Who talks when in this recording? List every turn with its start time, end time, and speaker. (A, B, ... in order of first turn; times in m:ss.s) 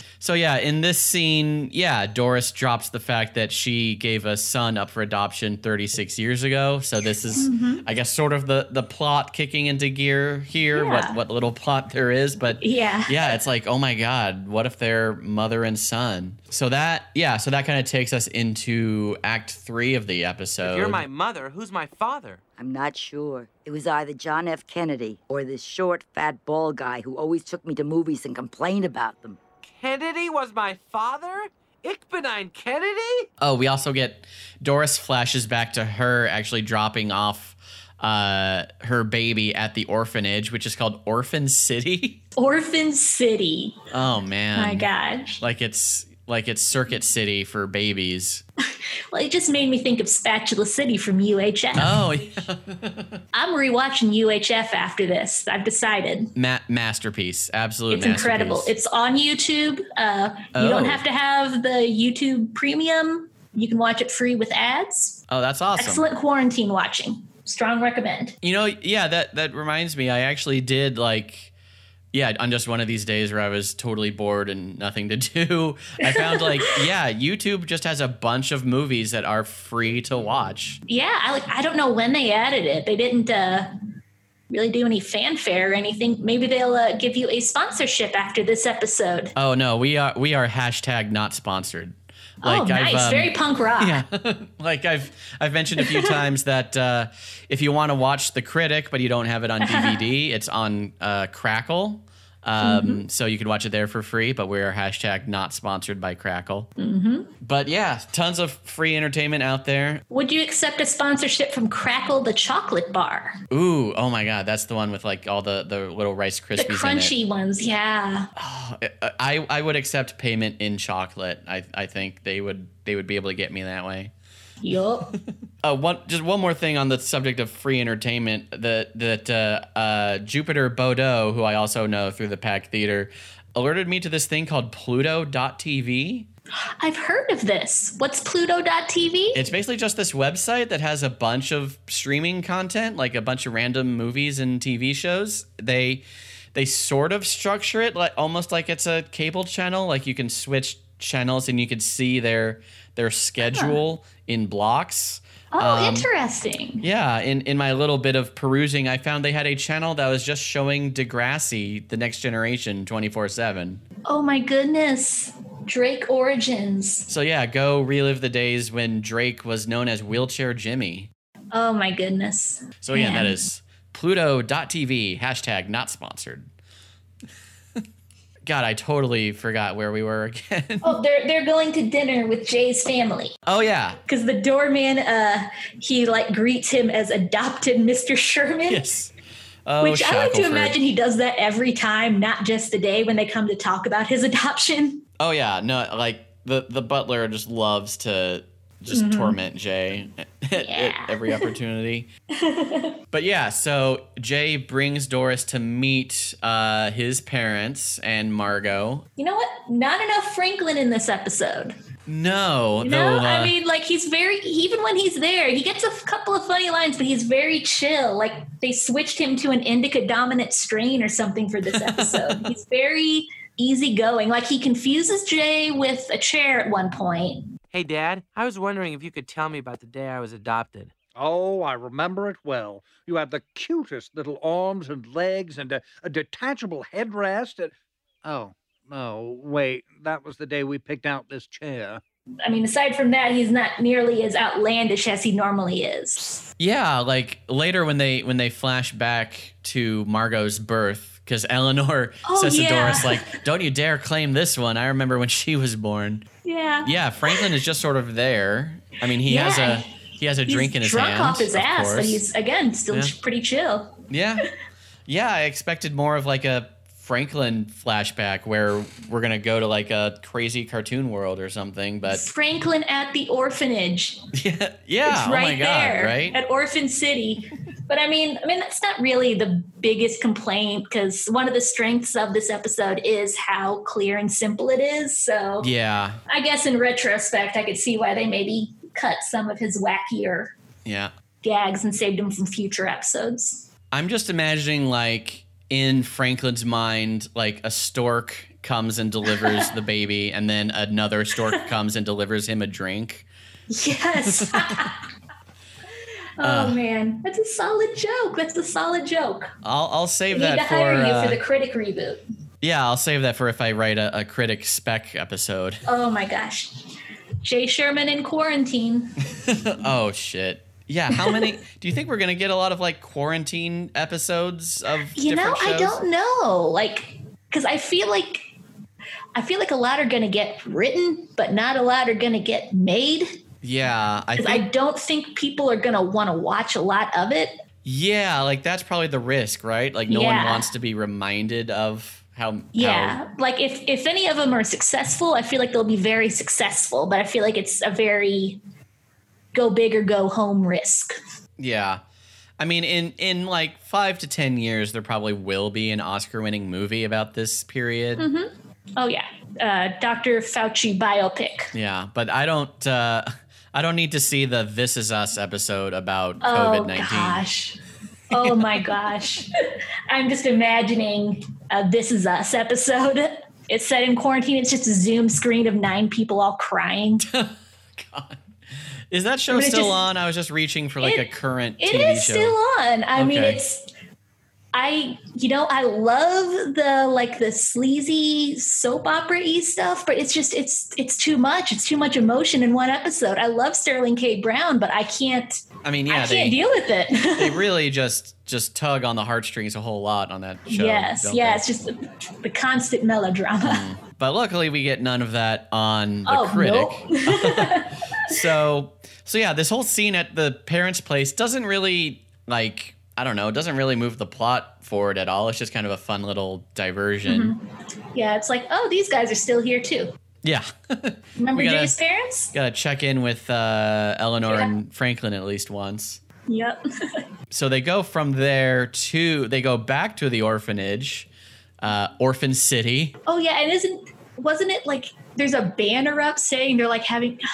0:00.2-0:21.0 A
0:07.3-0:07.8 B
0:10.7-0:11.2 B
0:12.6-0:13.3 B
0:20.6-0:22.4 C
0:22.6-0:29.4 D
0:29.6-0:33.3 C
0:33.4-0:42.2 A
0:42.4-0:43.8 B
0:43.9-0:44.9 A
0:44.5-0:45.4 B
0:45.4-0:48.4 A
0:49.1-0:52.0 B
0:51.7-0:53.2 A
0:53.3-0:56.3 B
0:56.4-0:58.7 A
0:57.9-1:05.2 B
1:00.5-1:01.0 A
1:05.3-1:06.0 A
1:05.8-1:08.4 B
1:08.4-1:11.5 A
1:12.1-1:20.8 A
1:16.0-1:16.8 B
1:20.9-1:23.7 B
1:24.5-1:29.3 B
1:29.3-1:46.7 A
1:32.4-1:34.0 B
1:35.8-1:36.2 B
1:39.6-1:40.0 B
1:42.6-1:43.0 B
1:46.8-1:47.3 B
1:47.4-1:50.0 A
1:50.1-1:53.4 B
1:53.5-1:57.1 A
1:56.6-1:58.3 B
1:58.4-2:04.1 A
2:04.6-2:05.1 B
2:05.6-2:16.3 A
2:16.8-2:19.4 B
2:19.3-2:36.1 A
2:33.4-2:33.8 B
2:35.5-2:36.8 B
2:36.8-2:43.8 A
2:44.0-2:47.1 B
2:47.1-2:51.1 A
2:51.5-2:53.4 B
2:52.8-2:56.5 A
2:58.4-3:01.0 A
3:00.8-3:03.4 B
3:03.4-3:04.0 A
3:04.0-3:08.8 B
3:08.7-3:09.1 A
3:09.6-3:10.8 A
3:09.8-3:15.0 B
3:15.2-3:22.1 A
3:18.9-3:19.4 B
3:20.5-3:21.5 B
3:22.3-3:23.0 B
3:23.1-3:29.1 A
3:29.2-3:31.7 B
3:32.0-3:33.6 A
3:32.8-3:47.5 B
3:41.7-3:42.5 A
3:47.7-3:50.9 C
3:51.1-4:02.0 E
4:02.4-4:06.4 B
4:06.6-4:16.2 A
4:12.2-4:13.4 B
4:16.4-4:17.5 B
4:16.8-4:22.2 A
4:19.2-4:19.8 B
4:20.4-4:24.0 B
4:24.1-4:24.5 A
4:25.0-4:32.3 A
4:32.1-4:34.2 B
4:34.3-4:36.4 A
4:35.0-4:45.7 B
4:45.6-4:46.2 A
4:46.3-4:50.5 B
4:50.8-4:51.1 A
4:51.4-4:53.7 B
4:53.9-5:03.3 A
4:59.3-4:59.7 B
5:03.7-5:05.0 B
5:04.2-5:04.9 A
5:06.4-5:09.5 B
5:06.4-5:06.8 A
5:09.6-5:11.4 A
5:10.3-5:12.2 B
5:12.6-5:15.8 A
5:15.8-5:16.9 B
5:17.4-5:19.2 B
5:19.4-5:26.0 A
5:21.1-5:21.4 B
5:25.1-5:28.4 B
5:29.3-5:33.3 B
5:33.6-5:34.6 A
5:34.4-5:37.6 B
5:37.8-5:43.2 A
5:40.1-5:40.7 B
5:42.7-5:48.6 B
5:49.5-5:51.1 B
5:51.6-5:52.0 A
5:52.6-5:58.3 A
5:58.2-6:01.7 B
6:01.7-6:07.4 A
6:06.4-6:07.8 B
6:08.3-6:09.5 B
6:08.3-6:08.9 A
6:10.1-6:17.2 B
6:17.2-6:18.4 A
6:19.1-6:22.6 A
6:19.5-6:20.0 B
6:21.0-6:23.9 B
6:23.2-6:23.6 A
6:24.7-6:37.6 B
6:35.8-6:36.6 A
6:37.3-6:41.6 A
6:40.7-6:43.8 B
6:43.6-6:57.5 A
6:46.2-6:48.3 B
6:57.2-6:57.6 B
6:58.1-7:00.1 B
7:00.4-7:02.0 A
7:01.4-7:02.5 B
7:02.5-7:06.2 A
7:04.4-7:04.7 B
7:06.5-7:07.2 B
7:07.5-7:11.3 A
7:11.8-7:13.2 A
7:13.2-7:17.4 B